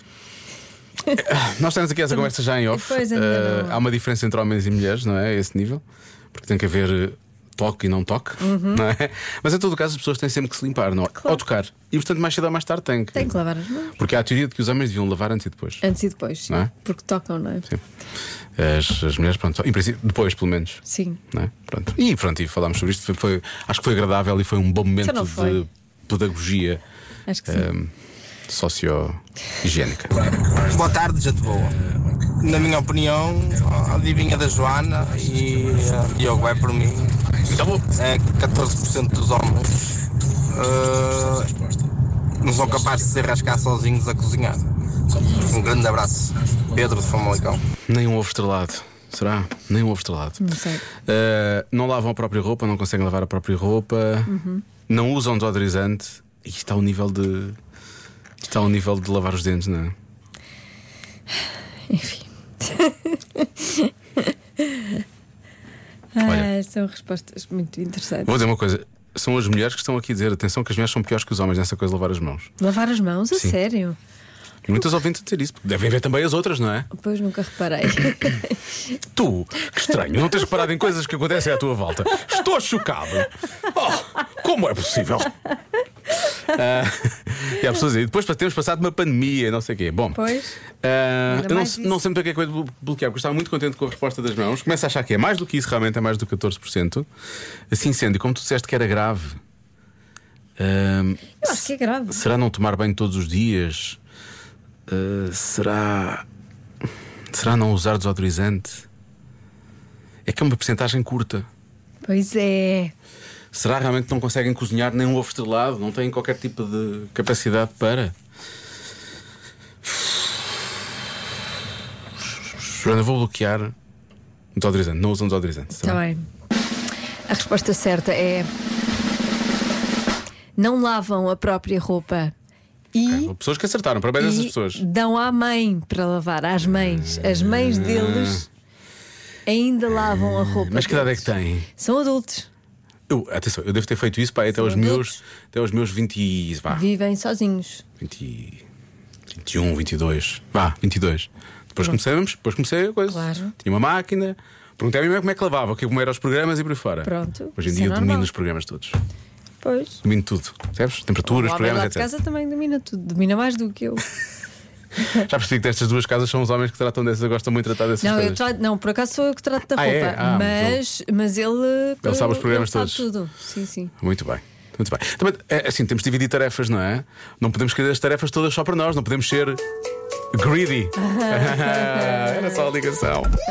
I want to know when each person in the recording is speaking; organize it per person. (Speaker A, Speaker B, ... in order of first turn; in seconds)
Speaker A: 1.1-13.4, 14.0-15.8, 18.6-26.8, 27.5-27.9, 28.5-30.2, 31.6-32.0, 37.5-37.9, 47.9-50.5, 51.1-54.3, 54.9-57.6, 58.4-60.0, 66.2-66.5, 68.2-72.6, 73.3-73.6, 74.7-76.9, 79.0-85.3, 86.5-90.2, 90.8-97.1, 97.7-99.4, 100.6-104.0, 104.9-106.2, 107.3-108.9, 110.2-111.5, 113.5-118.1, 119.8-120.3, 122.5-123.7, 124.5-126.0, 133.1-134.8, 136.7-138.5, 139.9-141.7, 143.1-146.9, 148.0-148.7, 149.3-159.0, 160.0-162.1, 165.1-168.4, 169.7-170.8, 172.0-173.1, 174.0-179.6, 180.3-183.3
Speaker B: 2.1-3.8, 8.4-8.9, 13.1-14.0, 15.8-17.7, 20.9-21.2, 25.0-25.6, 27.3-27.7, 50.4-50.9, 54.3-54.6, 61.9-65.0, 66.1-68.4, 72.6-74.0, 76.9-78.6, 90.2-90.6, 91.3-92.0, 101.4-102.2, 112.0-112.9, 125.8-126.3, 127.3-128.5, 130.6-132.3, 132.9-133.3, 134.2-138.5, 139.5-142.5, 144.5-145.2, 146.7-147.8, 153.1-153.6, 157.0-158.3, 159.6-160.0, 161.2-164.1, 168.0-173.9, 181.0-182.7
Speaker C: 30.4-31.8, 32.4-39.7, 40.4-41.5, 42.4-47.6